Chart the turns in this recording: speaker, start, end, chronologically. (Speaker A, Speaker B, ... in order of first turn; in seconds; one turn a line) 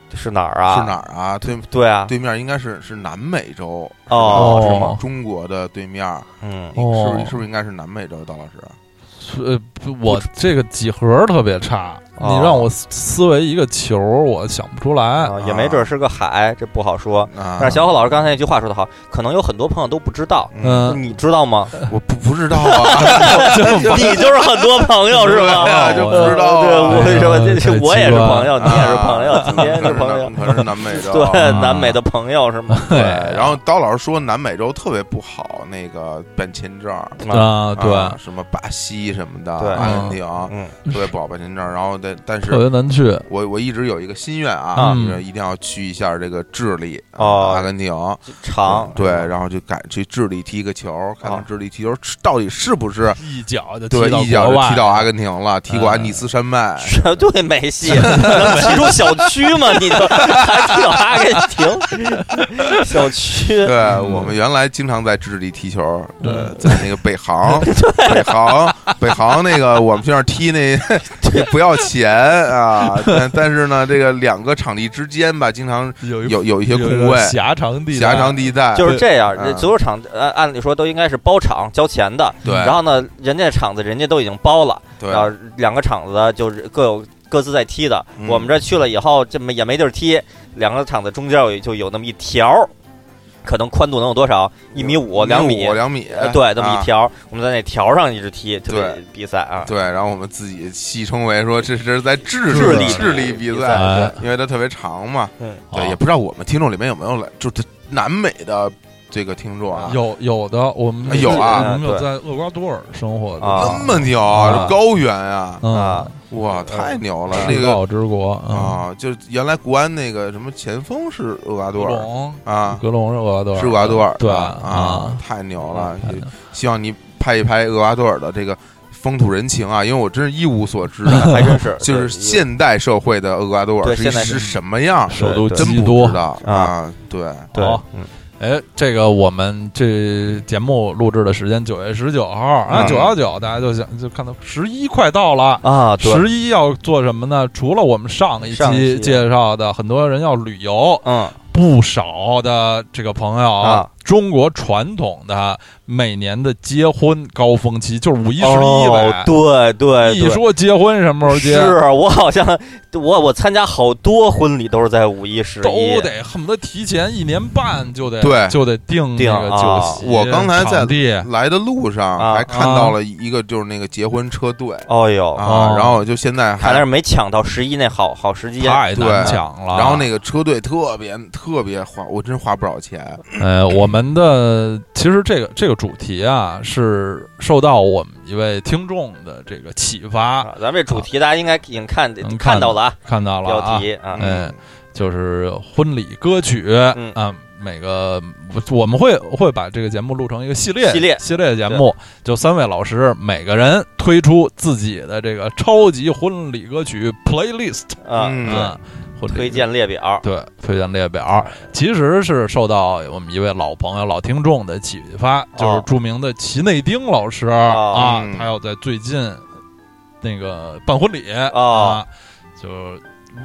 Speaker A: 0.1-0.9
Speaker B: 0.7-6.3
Speaker A: 1.7-2.1
Speaker A: 4.1-4.9
Speaker C: 4.2-5.0
Speaker A: 6.4-6.8
Speaker C: 6.8-7.3
Speaker B: 6.8-8.8
Speaker C: 9.2-15.3
Speaker A: 12.2-12.7
Speaker A: 15.2-21.7
Speaker B: 15.4-15.9
Speaker B: 17.3-17.9
Speaker B: 20.5-20.9
Speaker C: 20.6-21.0
Speaker B: 21.8-24.2
Speaker A: 22.6-30.3
Speaker C: 23.1-24.2
Speaker B: 25.1-27.3
Speaker C: 25.2-28.9
Speaker B: 28.6-31.7
Speaker A: 31.0-32.9
Speaker C: 31.4-32.0
Speaker C: 32.8-33.5
Speaker B: 32.9-37.2
Speaker A: 37.2-37.5
Speaker C: 37.3-38.2
Speaker B: 37.7-42.6
Speaker A: 39.6-39.9
Speaker C: 39.8-40.2
Speaker A: 40.5-40.7
Speaker C: 42.5-43.2
Speaker B: 43.2-53.2
Speaker C: 44.8-45.2
Speaker A: 47.2-47.7
Speaker A: 48.3-49.3
Speaker C: 53.2-55.0
Speaker B: 53.9-57.0
Speaker C: 55.7-56.1
Speaker A: 56.8-63.7
Speaker C: 57.9-59.3
Speaker B: 57.9-58.9
Speaker C: 62.3-62.7
Speaker B: 63.6-79.7
Speaker C: 63.9-64.3
Speaker C: 66.2-66.8
Speaker A: 66.2-66.6
Speaker A: 67.6-68.3
Speaker A: 71.2-71.5
Speaker C: 76.0-79.0
Speaker A: 78.7-92.7
Speaker B: 82.4-82.8
Speaker B: 85.0-85.3
Speaker B: 88.2-88.5
Speaker A: 93.4-99.7
Speaker B: 94.7-96.9
Speaker B: 98.7-99.0
Speaker B: 99.6-110.0
Speaker A: 102.5-103.9
Speaker C: 102.5-104.2
Speaker C: 105.7-106.0
Speaker C: 109.9-114.7
Speaker B: 111.0-111.7
Speaker A: 111.1-112.0
Speaker A: 113.4-113.8
Speaker B: 113.5-115.6
Speaker C: 115.6-116.1
Speaker A: 115.7-116.1
Speaker B: 116.3-117.8
Speaker A: 116.6-117.5
Speaker C: 117.3-118.8
Speaker B: 118.5-122.8
Speaker C: 121.7-125.2
Speaker B: 123.5-137.5
Speaker A: 131.1-132.4
Speaker A: 133.8-134.4
Speaker C: 134.2-134.5
Speaker C: 135.1-136.2
Speaker A: 135.1-135.7
Speaker A: 136.4-136.7
Speaker A: 137.5-138.1
Speaker C: 137.6-137.8
Speaker C: 138.4-159.3
Speaker A: 142.7-142.9
Speaker B: 142.7-143.2
Speaker A: 145.6-146.2
Speaker A: 148.4-149.2
Speaker A: 151.0-151.3
Speaker A: 153.6-153.9
Speaker A: 158.4-160.4
Speaker C: 160.0-161.8
Speaker A: 161.2-166.1
Speaker C: 165.6-171.3
Speaker B: 168.2-168.6
Speaker A: 169.2-170.0
Speaker B: 170.0-176.8
Speaker A: 172.2-172.5
Speaker C: 172.5-172.9
Speaker A: 174.9-175.4
Speaker C: 175.4-176.0
Speaker A: 176.6-179.4
Speaker C: 178.6-180.1
Speaker B: 178.9-183.2
Speaker C: 183.4-191.1
Speaker A: 190.4-194.3
Speaker C: 192.2-209.6
Speaker B: 194.2-194.6
Speaker A: 200.8-201.8
Speaker A: 208.0-208.7
Speaker B: 208.1-208.8
Speaker A: 209.3-210.2
Speaker C: 210.2-219.4
Speaker A: 215.6-215.8
Speaker A: 217.7-218.1
Speaker B: 217.9-218.5
Speaker C: 220.2-223.0
Speaker A: 221.5-222.0